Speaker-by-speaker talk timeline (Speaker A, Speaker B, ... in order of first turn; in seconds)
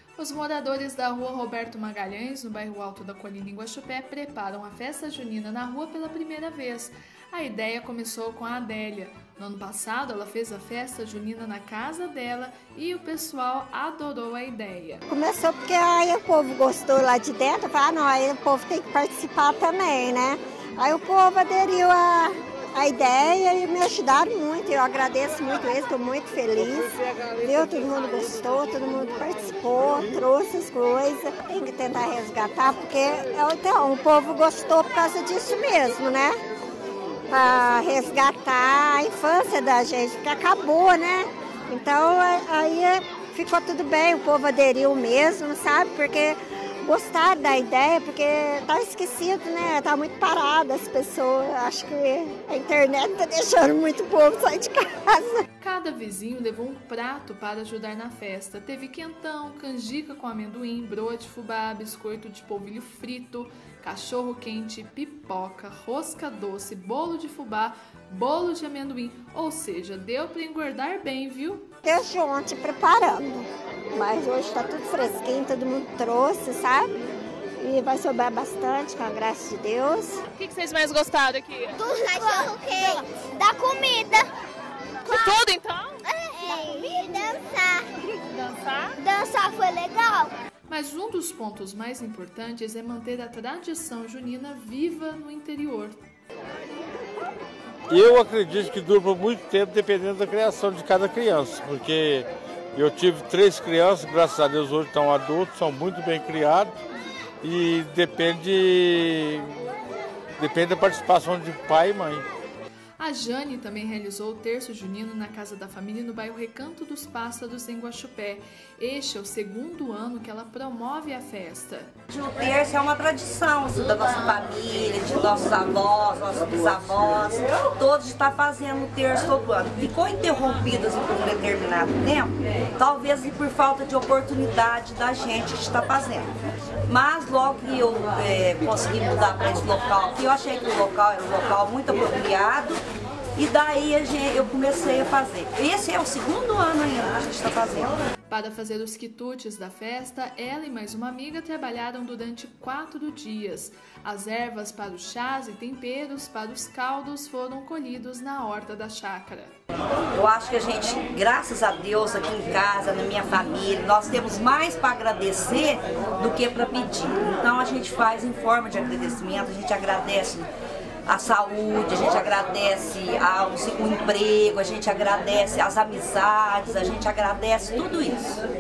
Speaker A: 0.2-15.0, 55.6-71.7, 80.4-81.6, 85.4-85.8, 90.7-96.0, 113.0-121.9, 148.3-159.6
Speaker B: 15.1-36.4, 37.3-55.4, 71.8-77.0, 77.6-80.2
Speaker C: 80.4-81.8, 85.1-85.9, 88.4-88.9
Speaker D: 81.8-84.3, 86.1-87.9, 89.0-90.3
Speaker E: 97.9-106.7, 107.4-109.5, 110.4-112.2
Speaker F: 122.1-136.3, 136.9-142.8, 143.4-147.9, 160.2-170.5, 171.1-178.4